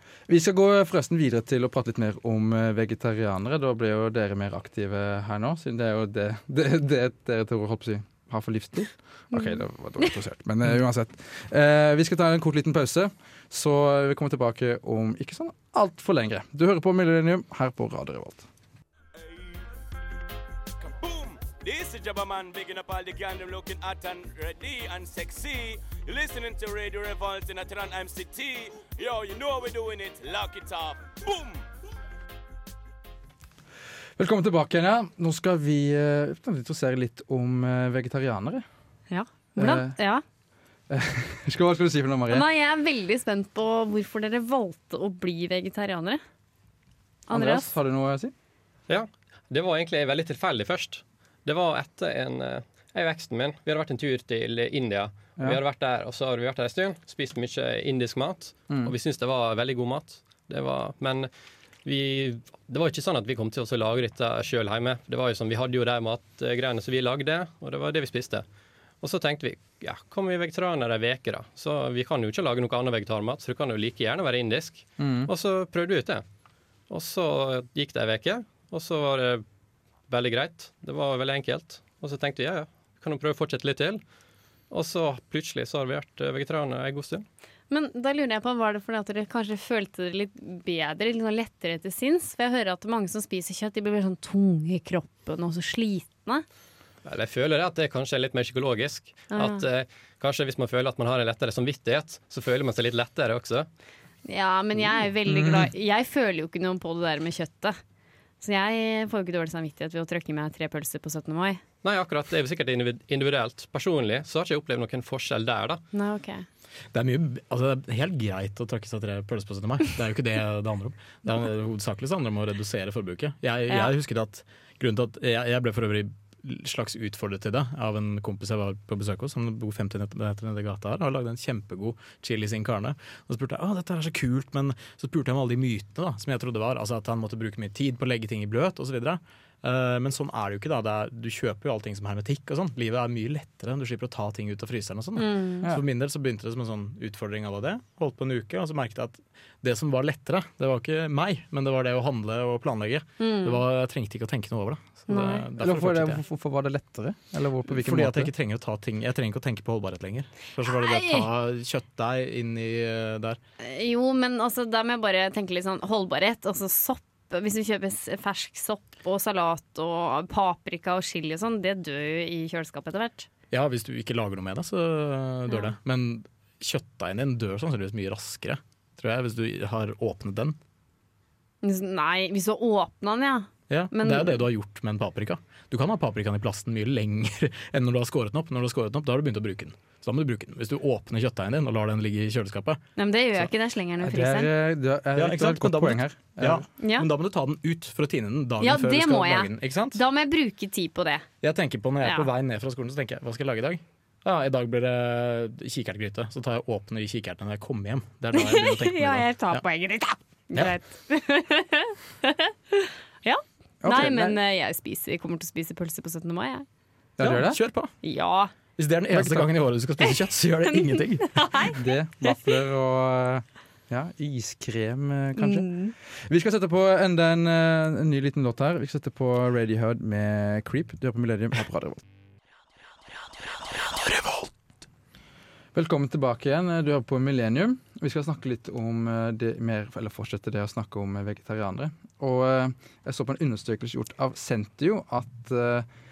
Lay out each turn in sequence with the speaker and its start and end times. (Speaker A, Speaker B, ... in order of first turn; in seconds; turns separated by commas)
Speaker A: 0.3-18.5, Speaker B: 9.3-9.6, Speaker C: 20.8-31.6, Speaker A: 34.2-38.6, Speaker B: 39.1-40.2, Speaker A: 39.6-39.9, Speaker A: 40.9-42.5, Speaker B: 42.3-46.2, Speaker B: 47.3-47.7, Speaker A: 47.3-48.3, Speaker D: 48.9-61.3, Speaker D: 61.8-68.5, Speaker D: 69.0-76.2, Speaker A: 75.0-75.3, Speaker D: 76.9-79.4, Speaker D: 80.1-84.0, Speaker D: 84.7-87.2, Speaker B: 87.7-96.5, Speaker D: 97.0-103.7, Speaker B: 99.3-99.6, Speaker B: 104.2-107.8, Speaker A: 105.3-105.7, Speaker B: 108.4-111.6, Speaker D: 111.8-115.8, Speaker B: 115.9-116.5, Speaker E: 116.9-156.2, Speaker B: 123.7-123.9, Speaker B: 145.2-145.7, Speaker B: 153.2-153.6, Speaker B: 155.1-155.5, Speaker A: 155.6-158.3, Speaker E: 157.7-163.4, Speaker B: 160.7-161.3, Speaker B: 163.6-173.3, Speaker E: 173.5-180.6, Speaker B: 175.5-175.7, Speaker B: 181.6-184.4, Speaker E: 183.7-192.8, Speaker B: 193.0-194.5, Speaker A: 194.0-196.7, Speaker E: 195.2-200.0, Speaker B: 196.8-197.1, Speaker B: 198.6-201.3, Speaker E: 201.4-209.6, Speaker B: 202.0-202.3, Speaker B: 208.3-216.7, Speaker A: 213.8-214.4, Speaker A: 217.2-217.6, Speaker E: 217.2-217.9, Speaker B: 218.0-218.5, Speaker E: 218.8-221.4, Speaker A: 219.1-219.5, Speaker B: 220.8-222.3, Speaker A: 221.7-232.0, Speaker B: 225.4-225.9, Speaker E: 233.9-234.5, Speaker A: 235.7-245.9